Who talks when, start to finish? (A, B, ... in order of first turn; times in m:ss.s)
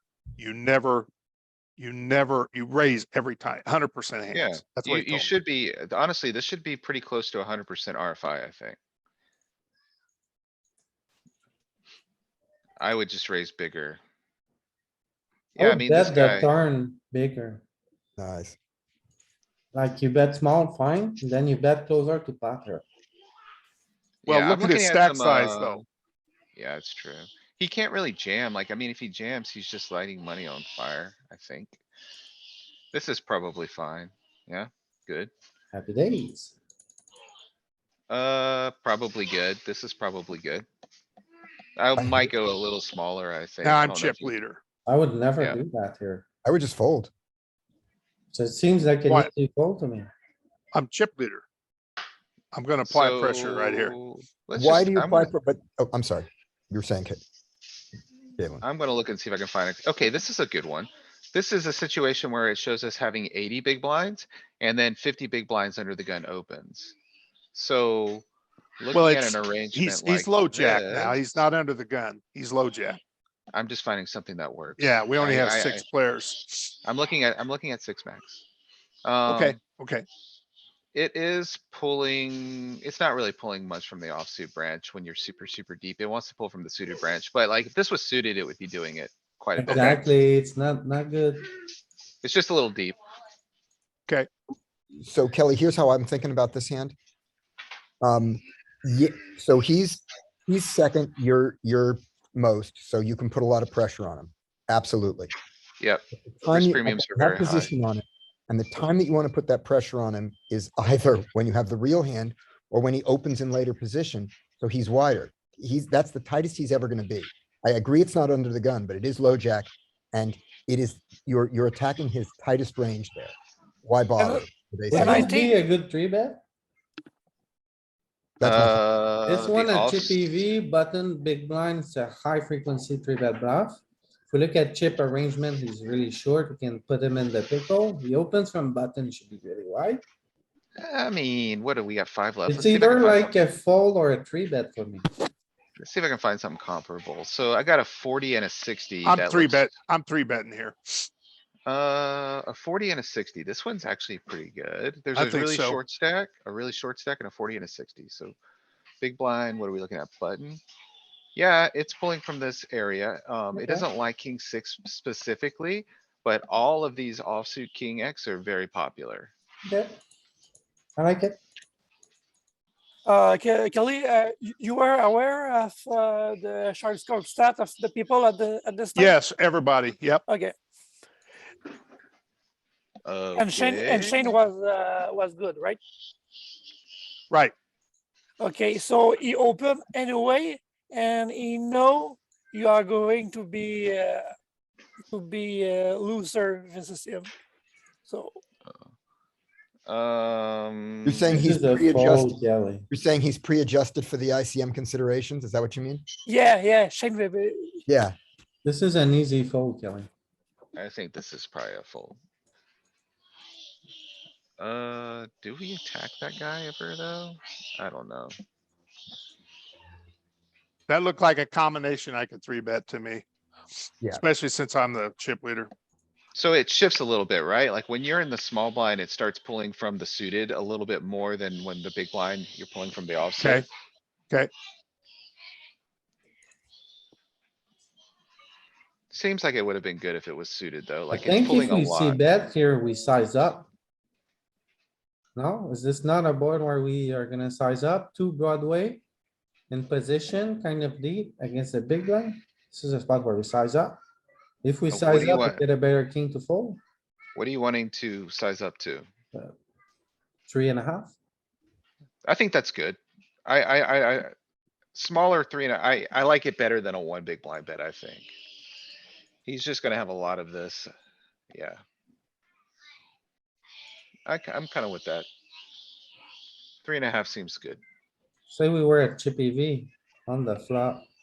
0:00.4-0:01.1 A
0:01.8-0:05.3 A
0:04.3-0:08.8 B
0:12.8-0:14.0 B
0:15.5-0:16.5 B
0:15.6-0:17.6 C
0:18.2-0:18.6 D
0:19.7-0:22.8 C
0:24.2-0:25.8 B
0:24.3-0:25.8 A
0:26.6-0:31.8 B
0:32.9-0:35.3 B
0:35.7-0:36.6 C
0:38.1-0:40.7 B
0:41.8-0:44.4 B
0:42.0-0:42.3 D
0:43.6-0:44.6 A
0:44.8-0:46.2 C
0:46.4-0:47.1 D
0:48.3-0:50.1 C
0:50.7-0:51.4 A
0:52.5-0:53.9 A
0:52.8-0:55.3 B
0:54.6-0:57.2 D
0:58.4-0:58.6 D
0:58.6-1:06.9 B
1:07.5-1:08.2 B
1:08.8-1:11.3 B
1:08.9-1:13.0 A
1:13.5-1:15.8 B
1:14.8-1:16.7 A
1:16.8-1:18.4 B
1:19.0-1:19.6 B
1:19.3-1:20.0 A
1:20.9-1:30.0 B
1:29.6-1:31.4 C
1:29.6-1:29.9 A
1:32.2-1:33.0 B
1:34.9-1:36.9 D
1:38.0-1:45.3 D
1:45.8-1:47.7 B
1:46.3-2:05.3 D
2:04.2-2:05.6 E
2:04.9-2:06.4 C
2:08.4-2:08.8 D
2:08.4-2:10.3 B
2:09.2-2:20.0 C
2:20.8-2:23.3 B
2:22.5-2:25.0 C
2:25.8-2:29.7 B
2:29.0-2:31.1 A
2:31.7-2:38.3 B
2:35.1-2:35.8 A
2:39.0-2:40.6 B
2:41.4-2:49.3 B
2:43.5-2:43.8 C
2:49.6-2:50.0 C
2:51.0-2:51.4 C
2:53.0-2:59.1 E
2:58.9-3:00.2 A
3:00.3-3:00.5 E
3:03.0-3:04.3 B
3:03.3-3:05.8 E
3:08.4-3:14.3 E
3:15.1-3:17.3 E
3:18.1-3:18.4 E
3:19.9-3:21.4 B
3:21.0-3:22.3 D
3:21.3-3:22.9 C
3:22.9-3:26.0 D
3:26.2-3:27.8 E
3:27.9-3:28.2 D
3:28.6-3:30.1 C
3:30.8-3:32.2 B
3:34.6-3:38.3 B
3:40.9-3:43.2 A
3:44.1-3:45.7 A
3:46.3-3:53.6 B
3:53.4-3:53.6 A
3:59.1-4:02.2 B
4:01.1-4:03.7 C
4:05.3-4:09.0 C
4:09.7-4:14.0 C
4:14.6-4:16.8 C
4:14.9-4:15.6 B
4:17.3-4:19.1 B
4:20.5-4:21.1 C
4:22.2-4:24.3 B
4:24.9-4:28.3 B
4:29.4-4:30.9 B
4:31.5-4:31.8 B
4:34.3-4:35.3 B
4:36.8-4:37.8 B
4:38.5-4:41.1 C